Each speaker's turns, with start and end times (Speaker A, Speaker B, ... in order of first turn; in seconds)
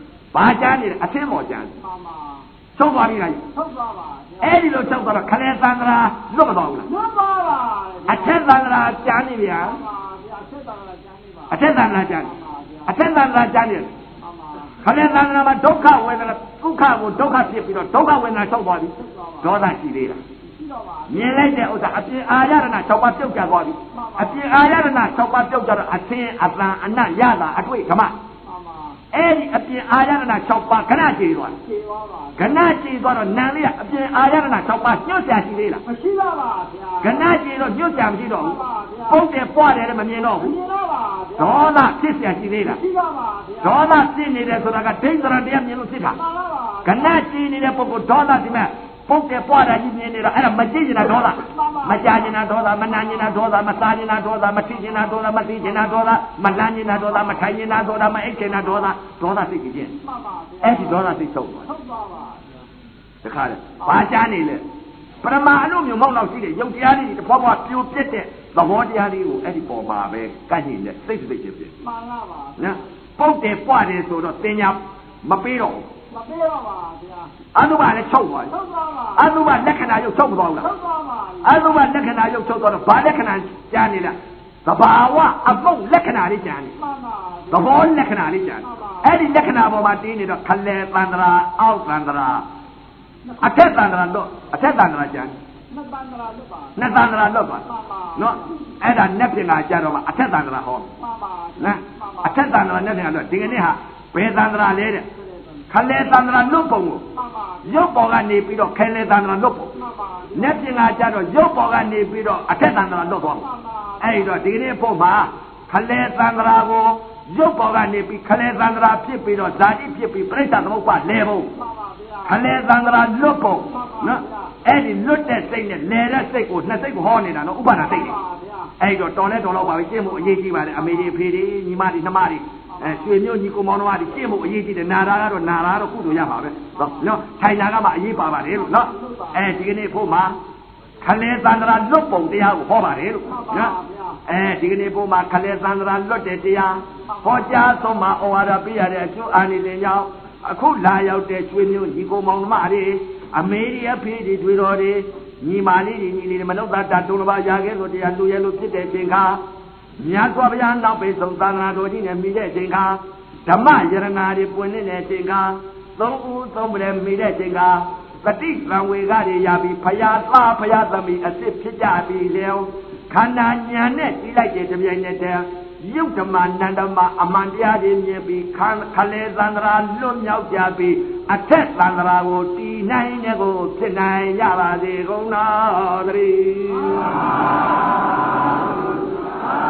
Speaker A: 0.3-1.7, 2.8-3.4, 4.4-6.9, 8.1-9.8, 11.5-12.3, 12.9-13.9, 14.8-20.2, 21.1-28.2, 29.1-31.6, 32.4-35.8, 37.0-40.6, 41.4-42.8, 43.6-46.2, 46.9-60.0, 60.6-61.7, 63.2-64.7, 65.2-71.7, 72.6-75.9, 77.5-78.5, 79.2-80.7, 81.4-86.8, 87.5-92.5, 93.4-95.3, 96.8-100.9, 101.6-105.1, 105.7-107.1, 107.7-109.8, 110.3-113.5, 114.0-121.5, 122.2-128.2, 128.8-140.4, 141.0-159.4, 160.0-187.1
Speaker B: 1.8-2.5, 3.5-4.8, 6.8-8.4, 9.6-13.0, 14.2-14.8, 19.0-19.5, 20.4-21.5, 23.9-24.4, 28.4-29.0, 31.6-32.6, 35.9-37.4, 38.4-39.2, 40.4-41.8, 42.6-43.9, 46.1-47.2, 51.4-52.4, 53.0-53.4, 60.0-61.0, 61.7-62.7, 71.8-72.8, 76.1-77.3, 78.5-79.4, 80.6-81.6, 86.8-88.0, 88.6-89.1, 95.7-96.9, 97.7-98.5, 101.0-102.5, 105.2-105.7, 107.1-107.9, 109.8-110.6, 113.4-114.3, 121.5-122.4, 123.7-124.6, 127.8-128.8, 132.7-133.0, 138.6-139.4, 143.3-144.2